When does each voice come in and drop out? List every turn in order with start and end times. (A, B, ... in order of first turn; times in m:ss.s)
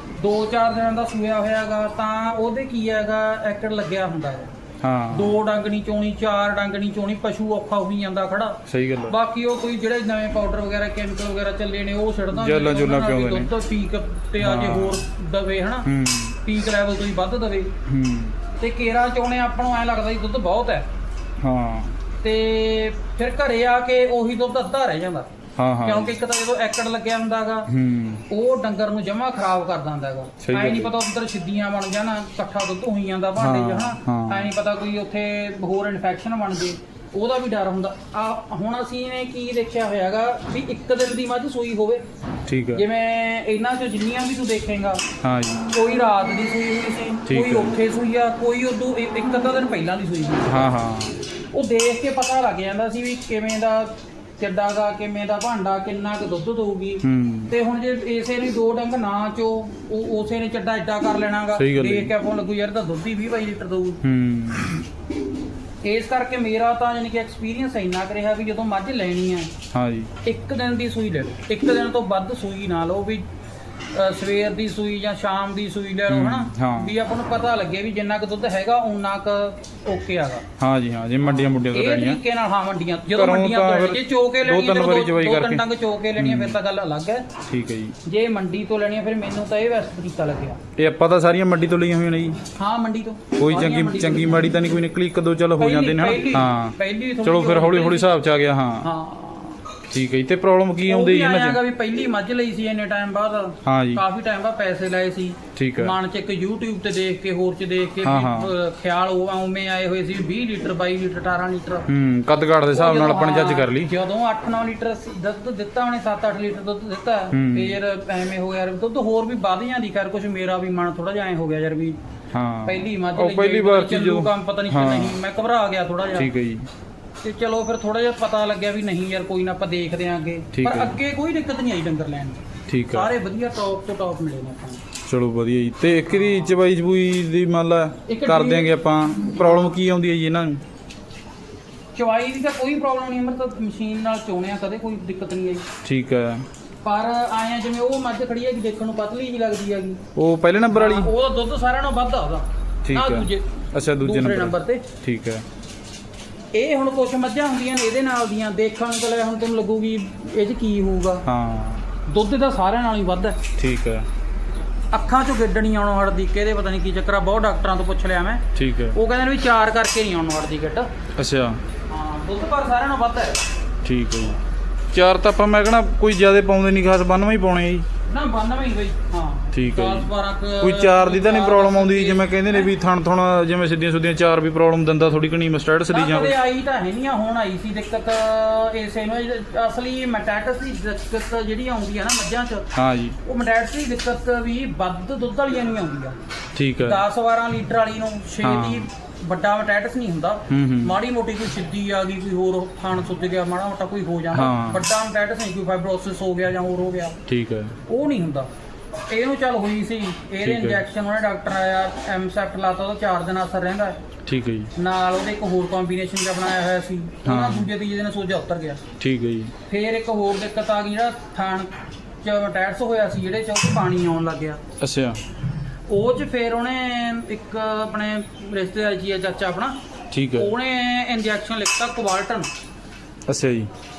0:00.1-0:04.5 A
0:04.8-0:05.4 B
0:05.1-0:15.9 A
0:08.7-0:09.2 B
0:12.3-0:13.5 B
0:14.4-0:15.0 B
0:15.8-0:16.4 B
0:16.4-0:17.7 A
0:17.8-0:18.4 B
0:18.6-0:20.8 A
0:21.4-0:22.0 B
0:22.2-0:25.3 A
0:25.6-0:26.1 B
0:25.8-0:27.7 A
0:27.7-0:28.2 B
0:28.3-0:42.0 A
0:30.4-0:30.9 B
0:33.4-0:34.5 B
0:42.5-0:42.8 B
0:42.7-0:45.0 A
0:45.2-0:45.6 B
0:45.7-0:50.7 A
0:47.3-0:47.7 B
0:50.4-0:51.2 B
0:51.5-1:04.0 A
0:57.0-0:57.5 B
1:01.5-1:02.1 B
1:04.0-1:04.7 B
1:05.8-1:09.5 A
1:09.7-1:10.1 B
1:10.2-1:13.2 A
1:13.9-1:20.4 A
1:16.1-1:16.9 B
1:20.6-1:22.2 B
1:21.2-1:27.3 A
1:23.1-1:25.6 B
1:26.2-1:26.6 B
1:27.5-1:28.0 B
1:28.0-1:30.6 A
1:30.8-1:32.4 B
1:32.6-1:34.5 A
1:33.4-1:38.9 B
1:35.6-1:38.1 A
1:38.8-1:39.6 A
1:39.9-1:41.6 B
1:40.8-1:51.9 A
1:43.6-1:44.0 B
1:45.6-1:46.0 B
1:48.0-1:48.5 B
1:51.9-1:53.9 B
1:52.7-2:02.0 A
1:57.3-1:57.8 B
2:02.3-2:05.2 B
2:02.6-2:06.3 A
2:06.1-2:06.7 B
2:07.2-2:14.8 A
2:10.5-2:11.0 B
2:12.7-2:13.1 B
2:15.1-2:20.6 B
2:16.1-2:16.6 A
2:18.1-2:19.8 A
2:21.9-2:25.6 A
2:25.8-2:26.5 B
2:26.8-2:30.0 A
2:30.1-2:31.1 B
2:30.7-2:34.8 A
2:32.8-2:35.4 B
2:36.5-2:41.2 A
2:41.2-2:41.8 B
2:42.1-2:43.4 A
2:43.6-2:44.1 B
2:44.9-2:50.9 A
2:48.5-2:49.0 B
2:51.2-2:51.6 B
2:51.9-2:53.4 A
2:53.8-2:54.4 B
2:54.9-2:57.8 B
2:58.1-3:02.7 A
2:59.5-3:06.3 B
3:05.9-3:12.7 A
3:12.7-3:13.2 B
3:13.2-3:16.2 A
3:16.5-3:17.0 B
3:16.8-3:27.2 A
3:18.4-3:18.9 B
3:20.5-3:21.0 B
3:24.3-3:24.8 B
3:27.3-3:27.7 B
3:27.9-3:28.5 A
3:29.1-3:34.0 A
3:30.4-3:30.8 B
3:34.2-3:34.7 B
3:34.7-3:38.8 A
3:37.2-3:37.7 B
3:39.0-3:39.5 B
3:39.7-3:41.7 A
3:42.2-3:44.6 A
3:44.8-3:45.2 B
3:45.9-3:49.8 A
3:50.1-3:50.5 B
3:50.3-3:52.5 A
3:53.3-3:53.7 B